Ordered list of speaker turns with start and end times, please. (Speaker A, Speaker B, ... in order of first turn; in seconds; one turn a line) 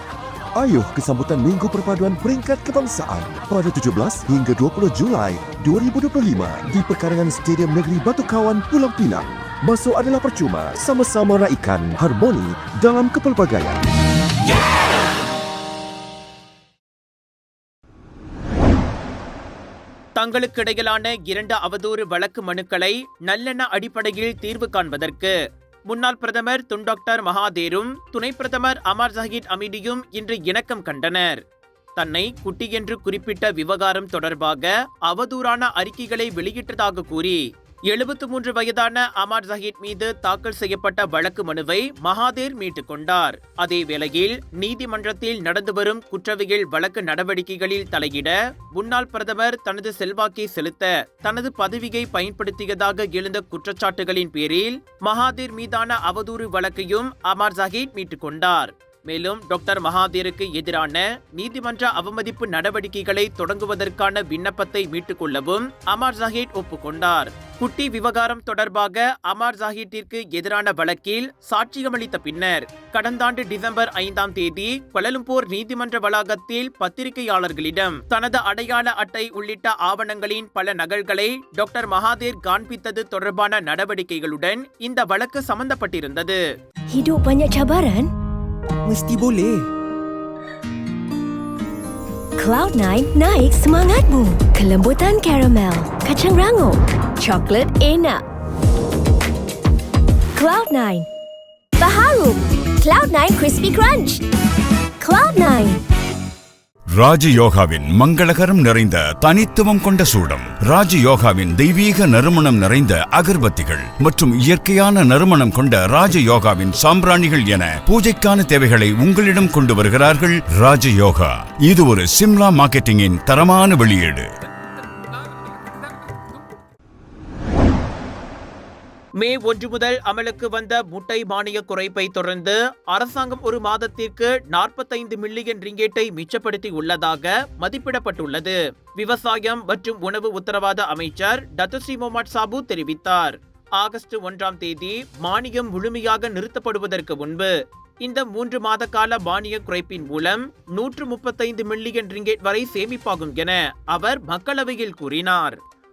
Speaker A: 0.6-13.8
Speaker B: 20.2-25.3
Speaker B: 25.9-31.4
Speaker B: 32.0-86.4
Speaker C: 86.9-88.1
Speaker A: 88.9-89.6
Speaker C: 92.4-98.2
Speaker C: 100.4-101.1
Speaker C: 101.8-104.2
Speaker C: 105.0-105.8
Speaker D: 106.9-124.3
Speaker B: 129.2-147.5
Speaker B: 148.0-155.6